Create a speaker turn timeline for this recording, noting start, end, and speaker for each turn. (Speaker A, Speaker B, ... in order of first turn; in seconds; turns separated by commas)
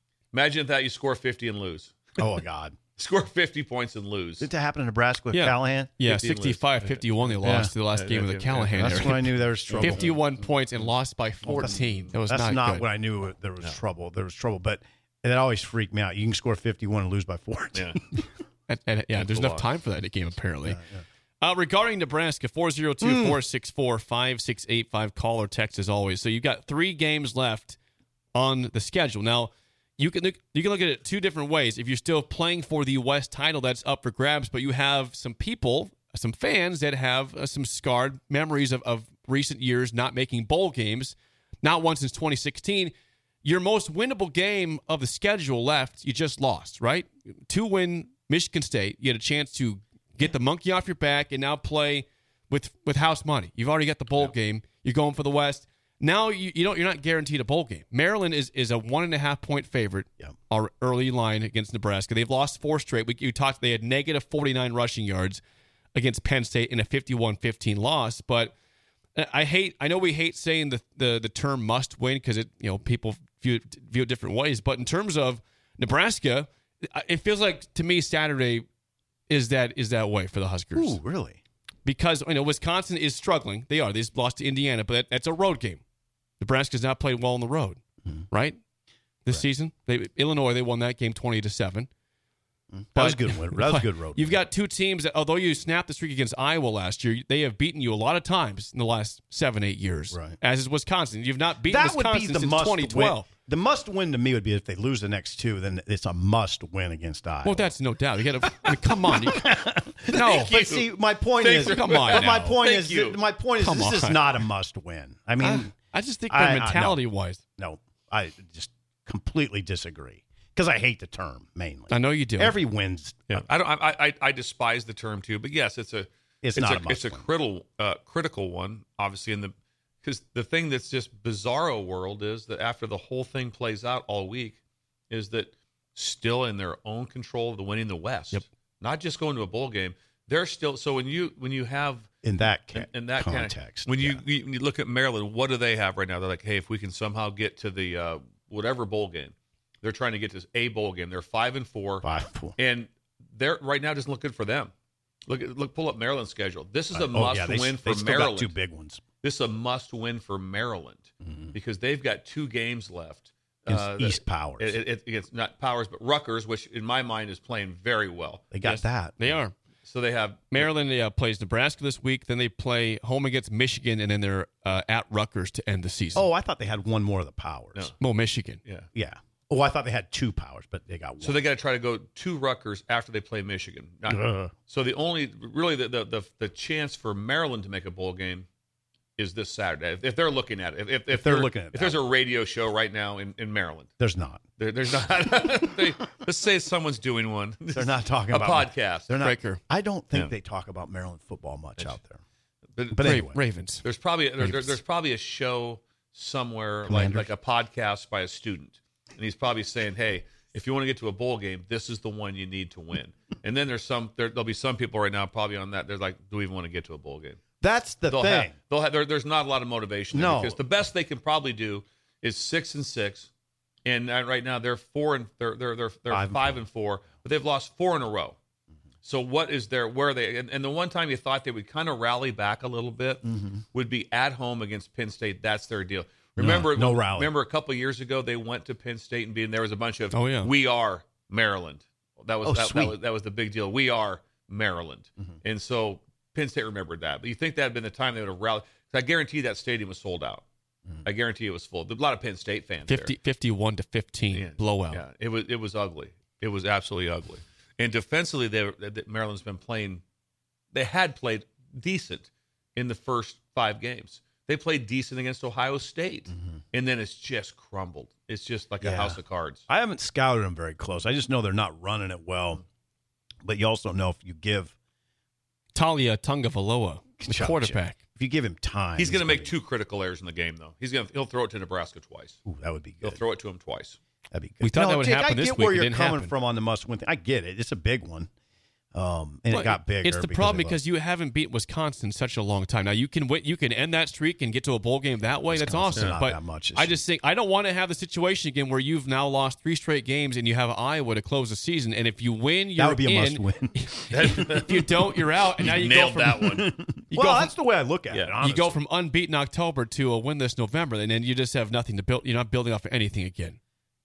Speaker A: 0.3-2.2, Speaker B: 2.2-2.8, Speaker A: 3.0-4.5, Speaker B: 4.4-5.9, Speaker C: 5.3-12.8, Speaker A: 6.0-10.9, Speaker B: 7.4-7.7, Speaker B: 8.8-10.1, Speaker B: 11.4-18.2, Speaker A: 11.5-12.2, Speaker A: 17.7-18.0, Speaker C: 18.7-20.8, Speaker A: 19.1-19.7, Speaker B: 20.6-21.0, Speaker C: 21.4-27.8, Speaker B: 23.0-23.4, Speaker C: 28.3-65.4, Speaker C: 65.9-68.5, Speaker C: 69.2-78.7, Speaker C: 79.3-81.0, Speaker B: 80.7-81.4, Speaker C: 81.8-85.8, Speaker C: 86.4-88.6, Speaker C: 89.2-91.9, Speaker B: 92.7-94.4, Speaker C: 93.0-103.2, Speaker B: 100.1-100.4, Speaker B: 101.6-107.7, Speaker C: 107.4-109.5, Speaker B: 108.4-115.7, Speaker C: 110.1-110.6, Speaker A: 110.1-110.9, Speaker A: 111.4-113.2, Speaker C: 111.7-112.4, Speaker C: 113.6-114.2, Speaker C: 115.4-117.4, Speaker B: 116.3-117.0, Speaker B: 117.6-123.4, Speaker C: 121.9-122.6, Speaker A: 123.3-134.6, Speaker B: 126.4-127.2, Speaker A: 135.1-142.1, Speaker B: 142.2-144.2, Speaker A: 142.7-152.1, Speaker B: 152.0-152.6, Speaker A: 152.6-154.7, Speaker A: 155.3-158.5, Speaker B: 156.9-159.0, Speaker A: 159.2-168.8, Speaker B: 161.2-161.5, Speaker B: 163.7-164.8, Speaker B: 168.5-169.4, Speaker C: 169.2-169.5, Speaker A: 169.8-170.7, Speaker C: 170.5-176.3, Speaker B: 176.1-177.9, Speaker C: 178.0-178.6, Speaker B: 178.9-181.4, Speaker A: 181.2-188.4, Speaker B: 184.1-184.5, Speaker A: 189.2-193.9, Speaker B: 191.1-192.0, Speaker B: 194.0-194.4, Speaker A: 194.6-199.1, Speaker B: 197.7-202.2, Speaker C: 199.2-199.6, Speaker A: 202.8-203.2, Speaker B: 202.9-203.4, Speaker C: 203.0-203.8, Speaker A: 203.8-217.4, Speaker C: 204.4-204.8, Speaker B: 206.8-207.3, Speaker B: 217.6-218.5, Speaker A: 218.1-223.3, Speaker B: 220.1-220.6, Speaker A: 223.8-228.3, Speaker B: 226.1-226.6, Speaker A: 229.0-250.4, Speaker B: 233.2-233.6, Speaker B: 236.4-237.3, Speaker C: 240.1-240.5, Speaker B: 242.4-243.0, Speaker A: 251.0-253.1, Speaker C: 252.9-255.0, Speaker A: 254.3-260.0, Speaker A: 260.7-269.6, Speaker B: 268.8-272.6, Speaker B: 273.4-274.7, Speaker C: 275.7-278.0, Speaker B: 277.2-279.5, Speaker A: 279.0-282.4, Speaker B: 282.4-283.2, Speaker A: 283.0-284.0, Speaker B: 284.3-288.3, Speaker C: 284.6-286.3, Speaker B: 288.9-290.8, Speaker C: 289.5-306.6, Speaker B: 295.5-297.0, Speaker B: 302.7-305.0, Speaker A: 304.1-304.9, Speaker A: 305.6-306.7, Speaker B: 306.4-308.8, Speaker C: 307.1-307.5, Speaker C: 308.4-313.6